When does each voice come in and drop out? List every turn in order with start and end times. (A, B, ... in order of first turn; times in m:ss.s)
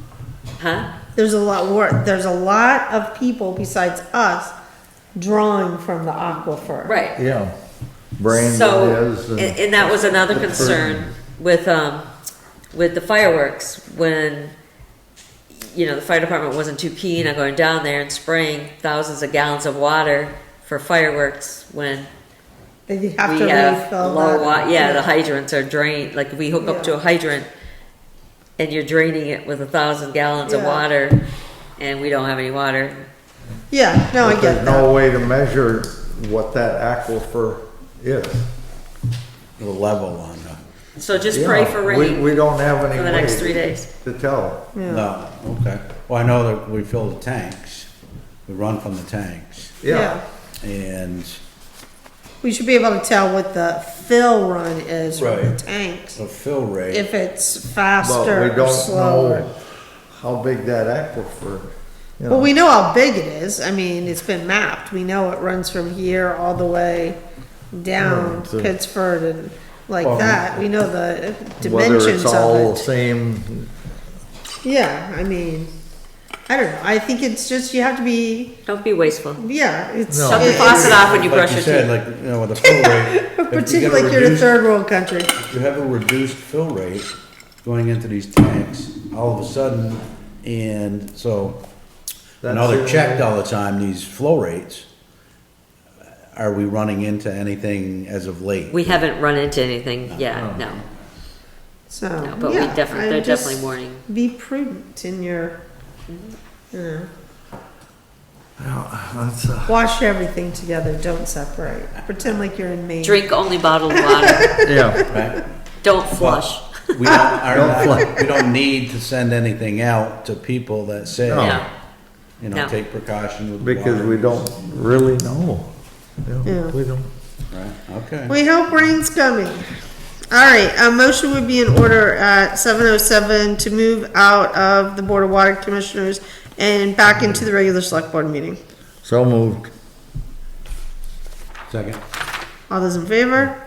0:00.6-0:00.9 A
0:01.2-0:04.5 B
0:05.1-0:07.0 B
0:06.8-0:07.2 A
0:07.2-0:07.5 C
0:08.2-0:11.0 C
0:08.3-0:12.1 A
0:09.8-0:10.7 B
0:12.7-0:14.5 A
0:15.5-0:22.1 A
0:22.9-0:25.1 B
0:23.2-0:27.5 A
0:26.6-0:27.0 B
0:28.6-0:31.2 A
0:30.4-0:30.8 B
0:31.8-0:33.1 A
0:33.7-0:34.9 B
0:34.2-0:38.5 C
0:39.6-0:40.6 D
0:41.0-0:42.3 A
0:41.3-0:44.7 C
0:42.9-0:43.9 A
0:44.7-0:45.0 B
0:44.8-0:47.9 D
0:48.5-0:49.8 D
0:49.8-0:50.2 C
0:49.9-0:50.2 B
0:50.6-0:51.4 D
0:52.4-0:56.2 B
0:55.1-0:55.6 D
0:56.1-0:57.1 D
0:56.9-0:59.5 B
0:58.0-0:59.5 C
1:00.1-1:02.5 C
1:02.3-1:07.2 B
1:07.7-1:12.8 B
1:08.0-1:08.7 C
1:10.0-1:10.4 D
1:10.1-1:10.4 C
1:11.6-1:13.7 C
1:14.6-1:15.7 B
1:16.5-1:18.5 B
1:18.6-1:19.4 A
1:19.4-1:21.1 B
1:20.1-1:21.0 C
1:20.1-1:21.9 A
1:20.7-1:24.6 D
1:22.6-1:25.3 B
1:25.4-1:27.1 D
1:27.6-1:31.6 D
1:32.4-1:33.2 C
1:32.4-1:34.9 D
1:36.3-1:39.0 D
1:38.7-1:40.8 A
1:40.1-1:40.8 D
1:40.4-1:40.6 C
1:41.9-1:45.6 B
1:42.2-1:44.0 A
1:46.1-1:46.4 A
1:46.7-1:47.1 B
1:48.6-1:49.7 C
1:49.7-1:53.2 B
1:53.0-1:54.6 A
1:53.9-1:55.2 B
1:54.6-1:55.0 C
1:55.1-1:55.4 D
1:55.8-1:56.7 A
1:56.2-2:01.6 D
1:57.1-1:58.2 B
1:57.5-1:58.1 C
2:01.2-2:01.6 C
2:01.4-2:01.6 A
2:02.4-2:04.4 D
2:03.6-2:05.7 C
2:06.2-2:07.1 C
2:06.4-2:06.7 B
2:07.5-2:08.4 D
2:08.3-2:09.6 B
2:10.3-2:18.6 B
2:19.0-2:19.7 C
2:21.7-2:22.0 D
2:22.7-2:23.6 B